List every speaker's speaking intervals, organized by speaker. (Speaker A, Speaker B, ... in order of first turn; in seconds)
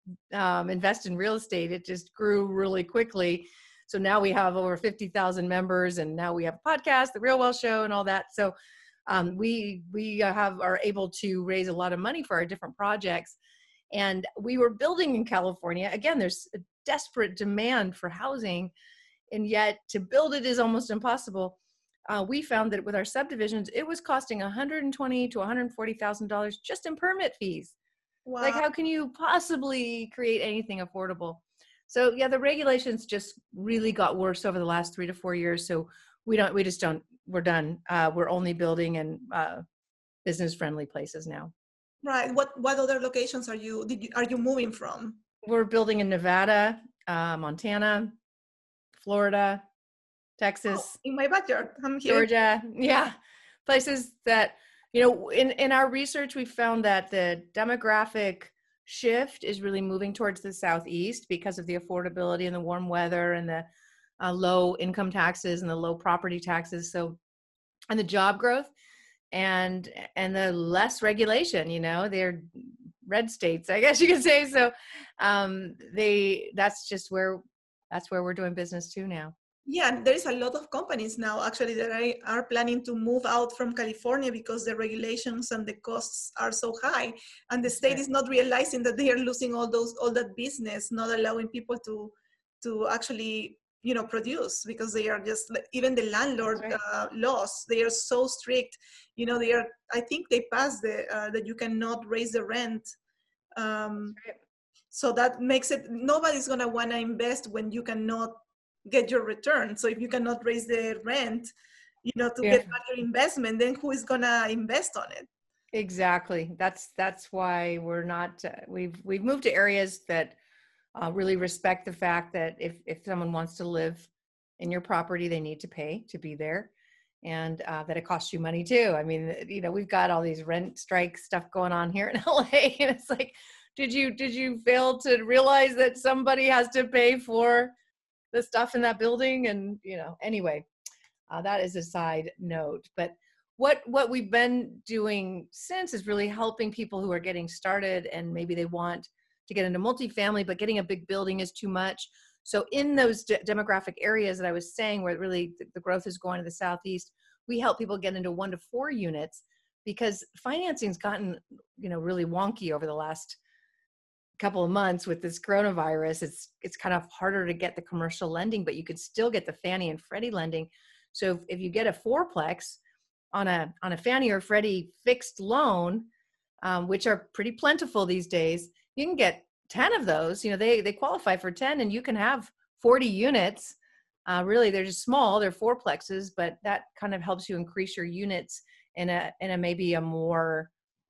Speaker A: 0.3-8.5, 9.1-13.4, 13.9-18.7, 19.3-21.6, 22.1-27.7, 28.4-39.6, 40.2-41.5, 45.4-48.2, 49.0-49.6, 50.4-50.9, 52.0-53.1, 53.6-63.7, 64.2-67.2, 67.9-68.7, 69.3-79.3, 112.4-112.7, 115.7-120.3, 121.0-126.7, 127.2-137.7, 138.3-140.7, 141.3-163.4, 164.4-172.8, 173.3-176.1, 176.6-183.8, 184.3-190.7
Speaker B: 28.2-28.6, 42.0-45.2, 50.7-52.3, 79.7-102.9, 103.5-104.2, 104.9-111.5, 112.0-115.3